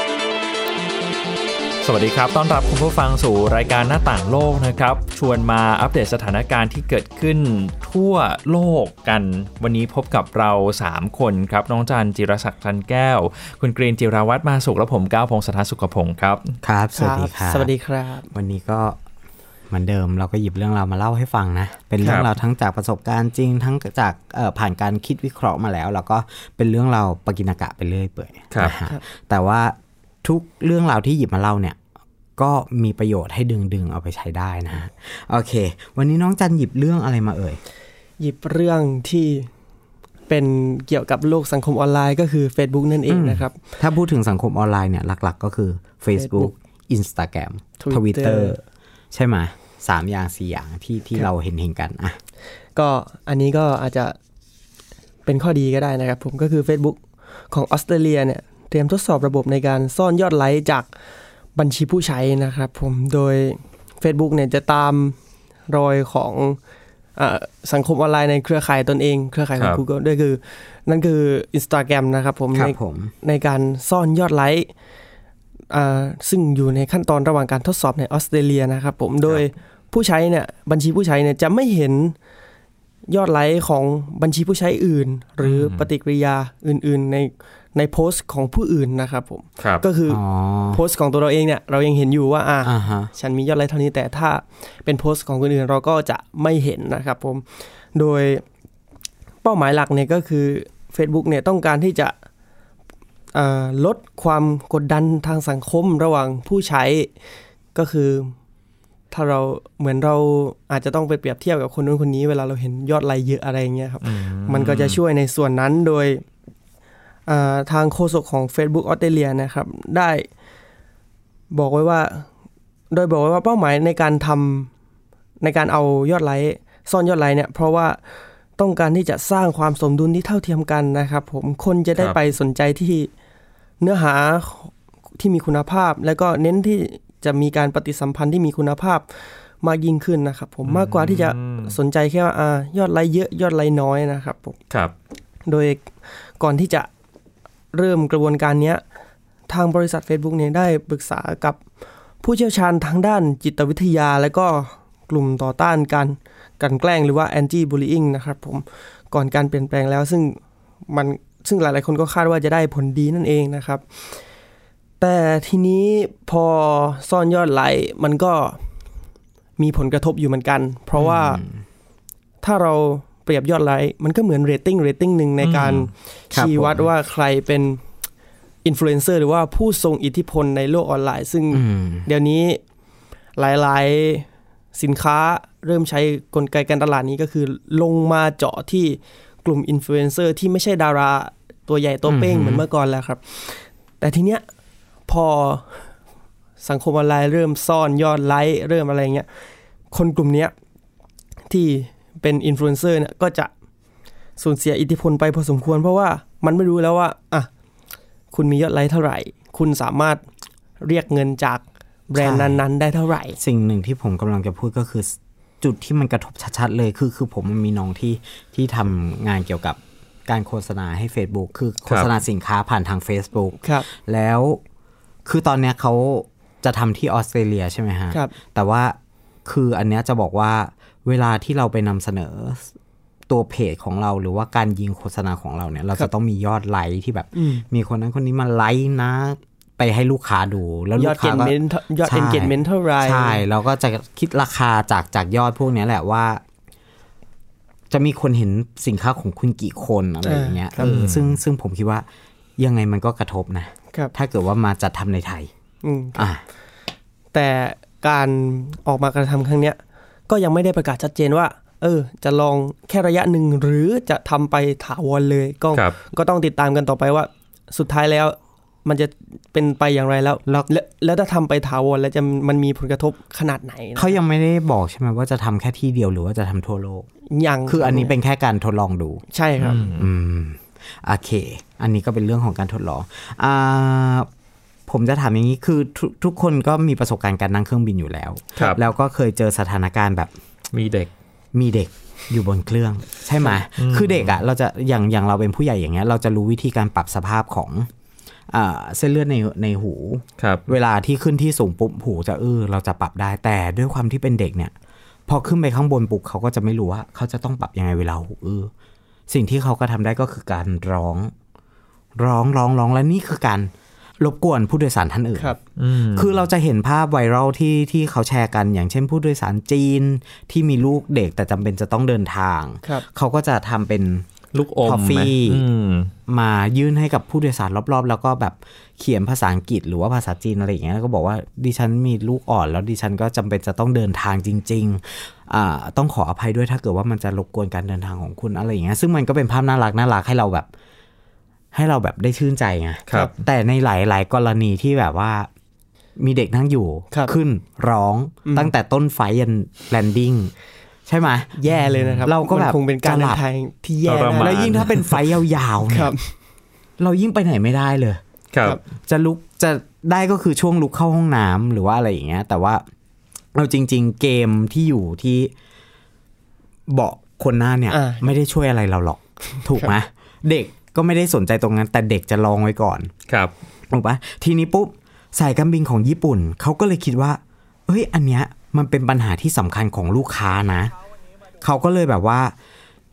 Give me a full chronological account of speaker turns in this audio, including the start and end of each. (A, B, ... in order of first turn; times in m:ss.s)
0:01.8-0:16.5 A
0:16.6-0:17.7 B
0:17.0-0:18.3 C
0:18.3-0:19.0 B
0:19.7-0:31.8 B
0:22.0-0:22.3 A
0:32.4-0:37.6 B
0:38.2-0:39.5 C
0:40.3-0:43.6 C
0:43.1-0:48.6 B
0:46.2-0:46.5 C
0:47.8-0:48.6 C
0:49.1-0:52.2 B
0:52.8-0:54.2 C
0:55.3-1:00.9 C
1:01.6-1:05.2 C
1:05.7-1:06.6 C
1:07.2-1:14.7 C
1:09.6-1:09.8 A
1:12.5-1:13.1 B
1:15.7-1:22.2 C
1:23.1-1:37.4 C
1:25.4-1:25.9 A
1:30.1-1:30.8 B
1:32.6-1:33.1 B
1:37.9-1:38.4 C
1:39.4-1:42.1 C
1:43.3-1:47.1 C
1:47.8-1:48.3 C
1:49.1-1:56.2 C
1:54.0-1:55.0 A
1:57.3-2:00.3 C
2:01.5-2:02.3 C
2:02.9-2:04.7 C
2:05.4-2:08.0 C
2:08.6-2:13.1 C
2:13.8-2:19.0 C
2:19.6-2:24.6 C
2:20.6-2:21.8 A
2:25.5-2:26.9 C
2:27.7-2:28.8 C
2:29.5-2:31.6 C
2:32.2-2:44.2 C
2:45.0-2:48.6 C
2:49.6-2:51.4 C
2:51.0-2:51.6 B
2:52.4-2:57.8 C
2:55.4-2:55.9 A
2:56.3-2:56.8 B
2:58.6-3:02.6 C
3:01.5-3:02.1 B
3:03.4-3:14.4 C
3:12.1-3:12.6 B
3:15.1-3:15.9 C
3:16.6-3:19.3 C
3:19.9-3:20.5 C
3:21.5-3:23.5 C
3:24.4-3:27.5 C
3:28.3-3:30.2 C
3:30.8-3:33.4 C
3:32.2-3:32.6 B
3:33.4-3:44.6 B
3:43.6-3:43.9 C
3:45.2-3:52.7 B
3:53.3-4:06.4 B
3:57.4-3:57.6 C
4:01.0-4:03.4 C
4:07.9-4:12.1 B
4:10.2-4:11.0 C
4:10.8-4:11.4 A
4:12.6-4:15.5 B
4:15.8-4:16.2 C
4:16.2-4:16.4 B
4:17.3-4:34.2 C
4:34.0-4:37.1 B
4:37.3-4:38.1 C
4:37.7-4:39.2 B
4:39.3-4:39.9 C
4:39.6-4:40.0 A
4:39.9-4:44.3 B
4:44.9-4:50.3 B
4:50.7-4:51.1 A
4:51.5-4:57.9 B
4:53.8-4:54.3 A
4:58.5-5:04.7 B
5:00.4-5:00.7 A
5:05.3-5:08.7 B
5:09.3-5:11.3 B
5:12.2-5:15.6 B
5:15.8-5:16.4 A
5:16.2-5:24.3 B
5:24.5-5:26.1 A
5:24.8-5:25.7 B
5:26.3-5:40.7 B
5:41.7-5:45.5 B
5:46.2-5:50.5 B
5:48.5-5:48.7 C
5:51.1-5:51.6 B
5:51.6-5:55.0 C
5:51.8-5:52.3 A
5:52.2-5:53.4 B
5:54.1-5:55.0 A
5:54.4-5:56.2 B
5:55.9-5:56.3 C
5:57.0-5:58.2 B
5:58.5-5:58.8 A
5:59.1-6:02.8 B
6:03.5-6:05.5 B
6:06.9-6:13.1 B
6:07.9-6:08.3 C
6:09.6-6:09.9 C
6:13.3-6:13.5 A
6:13.9-6:20.9 B
6:21.6-6:22.5 B